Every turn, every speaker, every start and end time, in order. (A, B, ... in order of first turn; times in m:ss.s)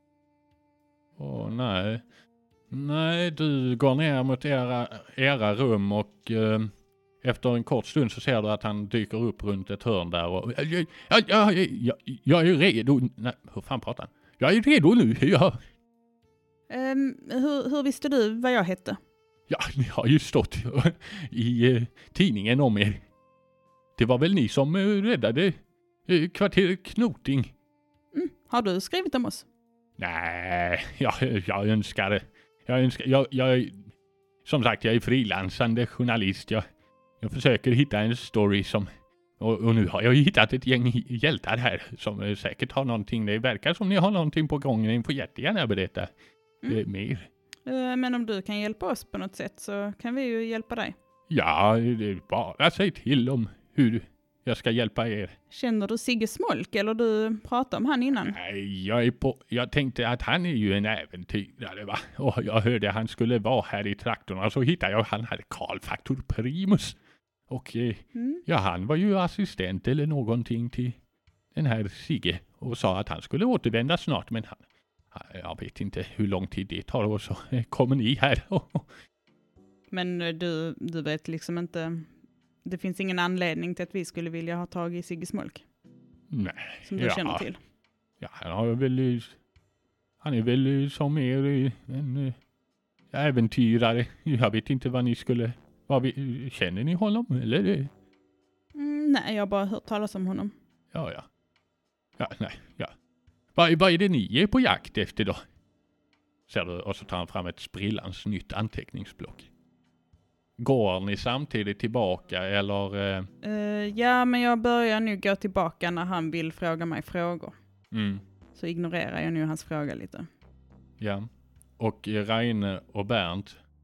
0:01.2-0:02.0 A
0:02.7-0:15.6 A
0:16.7-0:19.0 B
0:19.5-0:23.0 A
0:24.0-0:27.5 A
0:28.1-0:29.4 B
0:30.0-0:33.8 A
0:34.4-0:36.6 A
0:37.2-0:46.1 A
0:46.6-0:47.3 A
0:47.6-0:50.9 B
0:51.3-0:55.4 A
0:55.5-0:58.4 B
0:58.2-1:07.0 A
1:07.5-1:11.0 A
1:08.1-1:08.4 B
1:11.5-1:18.9 A
1:19.9-1:22.1 B
1:22.6-1:25.6 B
1:26.3-1:27.5 A
1:26.8-1:27.6 B
1:28.2-1:29.4 A
1:30.2-1:32.4 A
1:33.1-1:37.9 A
1:38.7-1:40.5 B
1:40.9-1:41.2 A
1:42.2-1:42.9 A
1:43.5-1:45.4 A
1:46.5-1:49.5 A
1:50.6-1:53.3 A
1:53.4-1:57.5 B
1:57.9-1:58.2 A
1:58.5-2:00.3 B
2:01.0-2:01.3 A
2:01.8-2:03.6 A